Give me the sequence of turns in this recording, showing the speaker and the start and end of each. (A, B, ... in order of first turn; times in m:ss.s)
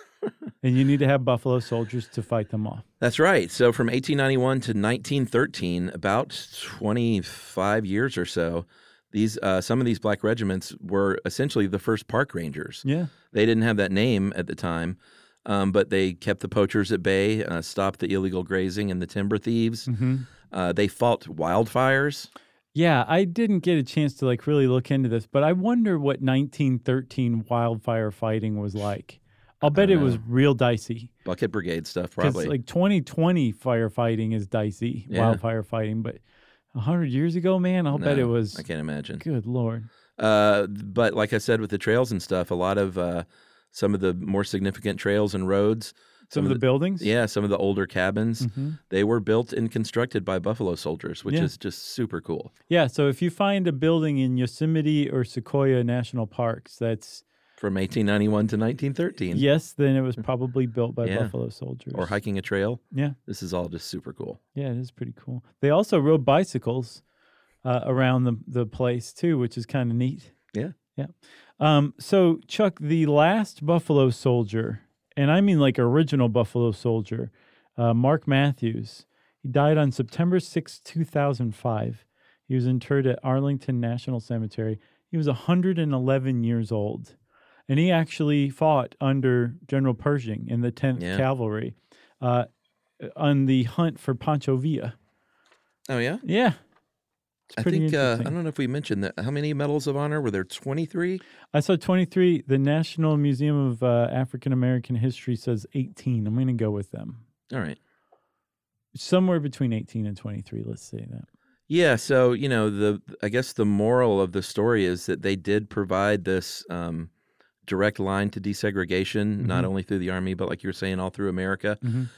0:00.6-0:02.8 A
0:03.0-0:19.9 B
0:12.8-0:13.1 A
0:19.9-0:20.3 A
0:20.5-0:22.3 B
0:22.7-0:31.1 A
0:29.7-0:30.2 B
0:31.2-0:32.5 B
0:32.2-0:36.2 A
0:35.1-0:35.4 B
0:36.7-0:38.6 A
0:37.9-0:39.2 B
0:39.2-0:39.9 A
0:40.2-0:52.5 B
0:46.3-0:47.1 A
0:48.4-0:48.8 A
0:52.7-0:57.2 A
0:57.6-0:59.4 B
0:59.3-1:02.1 A
1:01.0-1:01.3 B
1:01.9-1:04.4 B
1:04.6-1:07.0 A
1:07.6-1:10.4 A
1:11.0-1:27.2 A
1:27.7-1:32.5 A
1:31.0-1:31.2 B
1:33.0-1:35.0 A
1:35.9-1:36.2 B
1:36.2-1:36.6 A
1:37.5-1:38.3 A
1:37.5-1:41.2 B
1:41.5-1:47.2 A
1:47.5-1:47.8 B
1:48.9-1:51.3 A
1:51.7-1:57.1 B
1:57.6-2:01.8 B
1:59.4-1:59.7 A
2:01.8-2:02.1 A